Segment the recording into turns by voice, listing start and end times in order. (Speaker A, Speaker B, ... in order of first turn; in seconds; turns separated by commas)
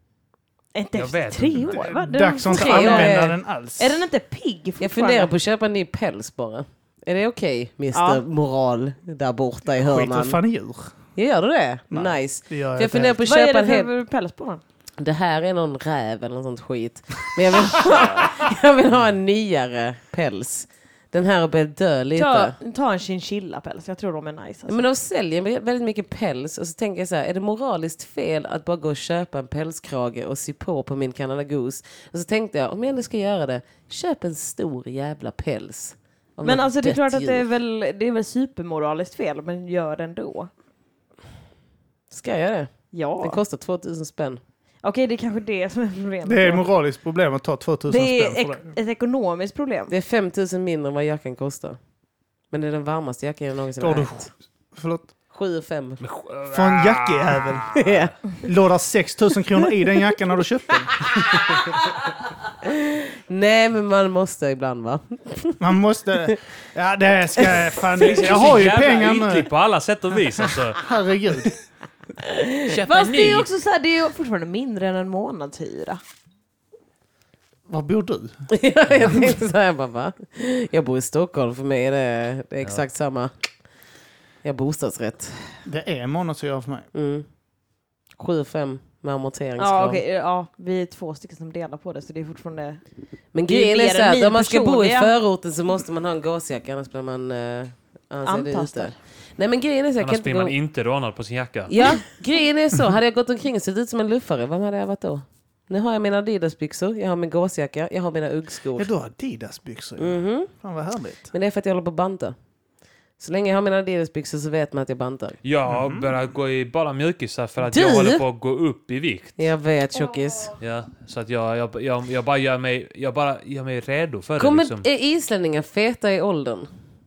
Speaker A: 0.7-3.2, Speaker B: 0.9-1.8, Speaker C: 1.7-4.0, Speaker D: 2.5-3.3, Speaker A: 3.8-5.3, Speaker D: 4.8-10.4, Speaker A: 7.9-8.2, Speaker C: 9.7-10.9, Speaker D: 11.2-13.9, Speaker C: 11.9-13.2, Speaker A: 13.2-14.6, Speaker D: 15.0-22.5, Speaker A: 22.1-24.8, Speaker D: 24.7-37.4, Speaker A: 36.4-40.5, Speaker D: 42.1-44.4, Speaker A: 42.9-43.4, Speaker A: 44.8-46.6, Speaker C: 46.2-48.7, Speaker A: 47.9-49.9, Speaker D: 49.9-51.8, Speaker D: 52.5-54.3, Speaker C: 53.8-55.1, Speaker D: 55.3-56.0, Speaker B: 56.0-58.1, Speaker C: 56.5-57.8, Speaker D: 57.7-58.1, Speaker C: 58.4-61.1, Speaker D: 61.1-61.6, Speaker D: 62.6-65.6, Speaker C: 65.6-69.5, Speaker B: 68.0-70.8, Speaker C: 70.8-71.5, Speaker D: 72.2-72.8, Speaker B: 72.7-73.5, Speaker A: 72.8-76.0, Speaker C: 77.7-78.4, Speaker D: 78.5-83.3, Speaker D: 84.4-85.6, Speaker C: 85.7-86.9, Speaker D: 86.9-87.2, Speaker D: 88.2-90.0, Speaker A: 89.6-92.8, Speaker D: 93.3-100.5, Speaker A: 93.5-95.1, Speaker A: 98.2-98.9, Speaker B: 100.0-101.8, Speaker D: 101.7-108.9, Speaker C: 108.7-111.3, Speaker D: 110.0-110.5, Speaker D: 111.3-112.3, Speaker D: 113.2-115.4, Speaker B: 115.4-119.5, Speaker C: 115.7-116.1, Speaker D: 117.6-118.2, Speaker D: 119.4-120.5, Speaker B: 120.6-124.8, Speaker D: 124.4-126.7